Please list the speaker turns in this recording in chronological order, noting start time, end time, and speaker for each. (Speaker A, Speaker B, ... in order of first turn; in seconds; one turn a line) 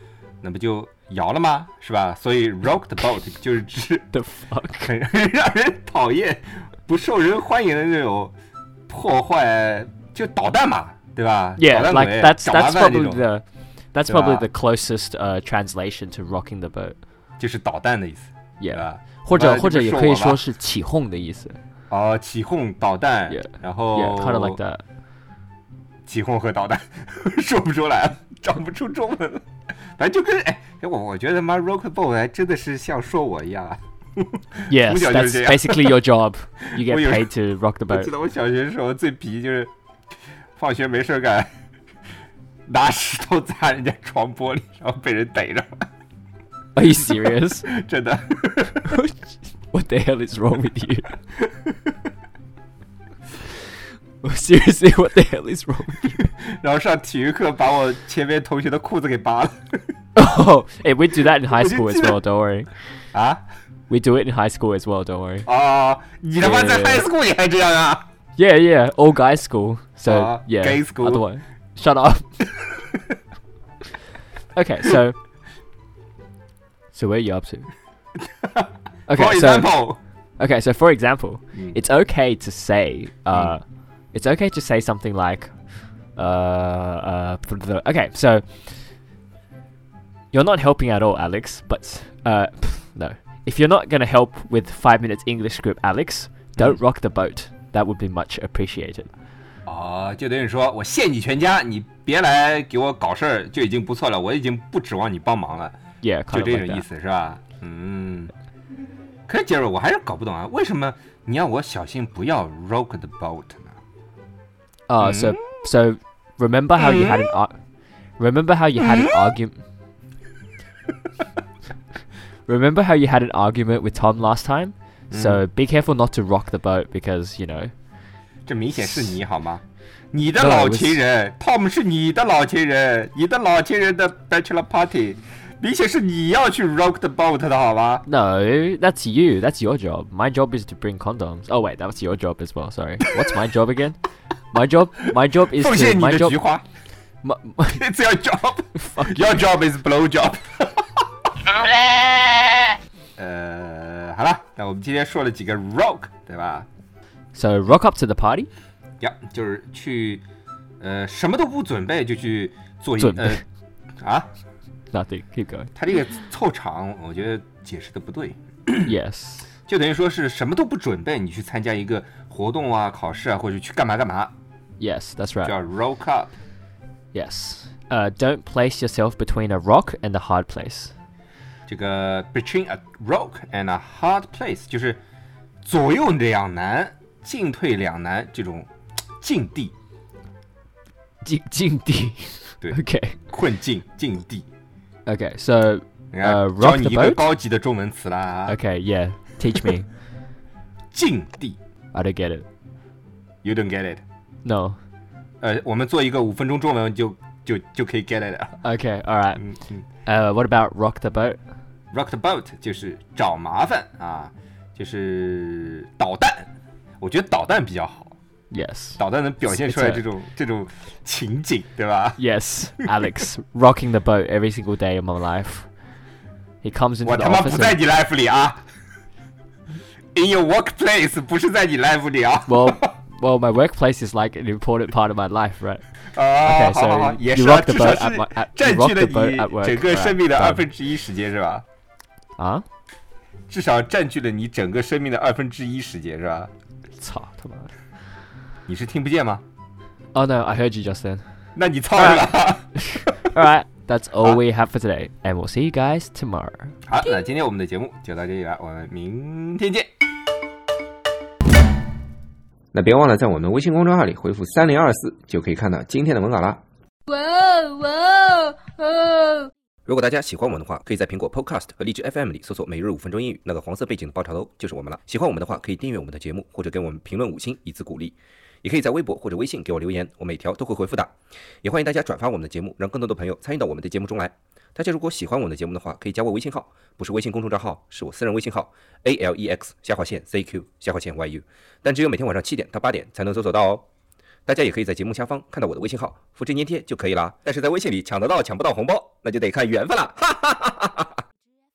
Speaker A: 0.4-4.1
Speaker B: 4.1-4.9
Speaker A: 4.8-8.3
Speaker A: 8.9-13.3
Speaker B: 11.6-17.0
Speaker A: 14.1-14.5
Speaker A: 17.4-20.4
Speaker B: 18.6-21.6
Speaker A: 21.9-24.6
Speaker B: 23.3-24.8
Speaker A: 26.1-29.4
Speaker A: 30.0-36.0
Speaker B: 34.7-38.1
Speaker A: 36.8-37.3
Speaker A: 37.9-39.7
Speaker A: 40.6-41.5
Speaker A: 42.7-45.8
Speaker B: 46.8-47.7
Speaker A: 47.6-48.9
Speaker B: 48.9-51.1
Speaker A: 51.5-51.7
Speaker B: 54.2-56.2
Speaker A: 56.2-59.7
Speaker B: 60.1-62.7
Speaker A: 61.5-62.2
Speaker A: 63.1-63.4
Speaker B: 63.9-65.5
Speaker A: 65.5-68.0
Speaker B: 66.4-67.1
Speaker B: 68.4-72.3
Speaker A: 70.1-71.3
Speaker B: 74.5-75.2
Speaker B: 76.9-77.7
Speaker A: 78.4-80.0
Speaker B: 79.1-88.9
Speaker A: 83.3-83.6
Speaker B: 90.3-99.1
Speaker A: 99.7-105.8
Speaker B: 106.0-106.8
Speaker A: 106.3-108.3
Speaker A: 109.3-113.8
Speaker B: 114.9-117.6
Speaker A: 115.0-115.4
Speaker A: 116.8-117.3
Speaker B: 118.2-119.6
Speaker A: 118.8-119.1
Speaker B: 122.5-127.7
Speaker A: 125.1-125.4
Speaker A: 128.5-138.1
Speaker B: 128.8-129.1
Speaker B: 130.3-131.0
Speaker B: 138.1-144.0
Speaker B: 144.5-146.4
Speaker A: 145.5-146.7
Speaker B: 147.2-147.9
Speaker A: 147.7-152.4
Speaker B: 148.8-149.4
Speaker A: 153.2-156.7
Speaker B: 157.3-158.5
Speaker A: 159.0-160.2
Speaker A: 160.8-163.4
Speaker B: 163.0-163.4
Speaker A: 164.0-164.3
Speaker B: 164.9-165.7
Speaker A: 165.8-168.9
Speaker B: 168.8-169.5
Speaker A: 169.7-174.3
Speaker B: 174.8-175.6
Speaker A: 175.4-176.3
Speaker B: 177.1-180.9
Speaker A: 181.7-185.0
Speaker A: 185.6-188.7
Speaker A: 189.2-189.7
Speaker B: 191.2-193.2
Speaker A: 192.6-194.5
Speaker B: 195.1-197.2
Speaker A: 196.1-198.6
Speaker B: 198.5-199.9
Speaker A: 200.9-201.6
Speaker B: 201.9-202.5
Speaker A: 203.4-204.0
Speaker B: 204.4-204.8
Speaker A: 205.4-208.6
Speaker B: 208.6-209.4
Speaker A: 209.4-209.8
Speaker B: 210.1-211.4
Speaker A: 211.9-216.5
Speaker A: 217.0-218.2
Speaker B: 218.5-220.1
Speaker A: 219.0-222.2
Speaker B: 222.2-225.7
Speaker B: 226.6-227.8
Speaker A: 227.0-228.6
Speaker A: 230.1-232.9
Speaker B: 232.5-235.8
Speaker A: 236.1-241.7
Speaker B: 236.4-240.7
Speaker B: 242.4-242.7
Speaker A: 243.5-246.5
Speaker B: 247.0-247.7
Speaker A: 248.7-249.4
Speaker B: 250.2-251.2
Speaker A: 251.6-253.1
Speaker B: 252.0-252.3
Speaker B: 252.8-256.8
Speaker A: 256.9-259.9
Speaker C: 262.7-266.6
Speaker D: 267.1-269.5
Speaker C: 269.9-281.1
Speaker C: 281.6-293.9
Speaker C: 294.5-301.0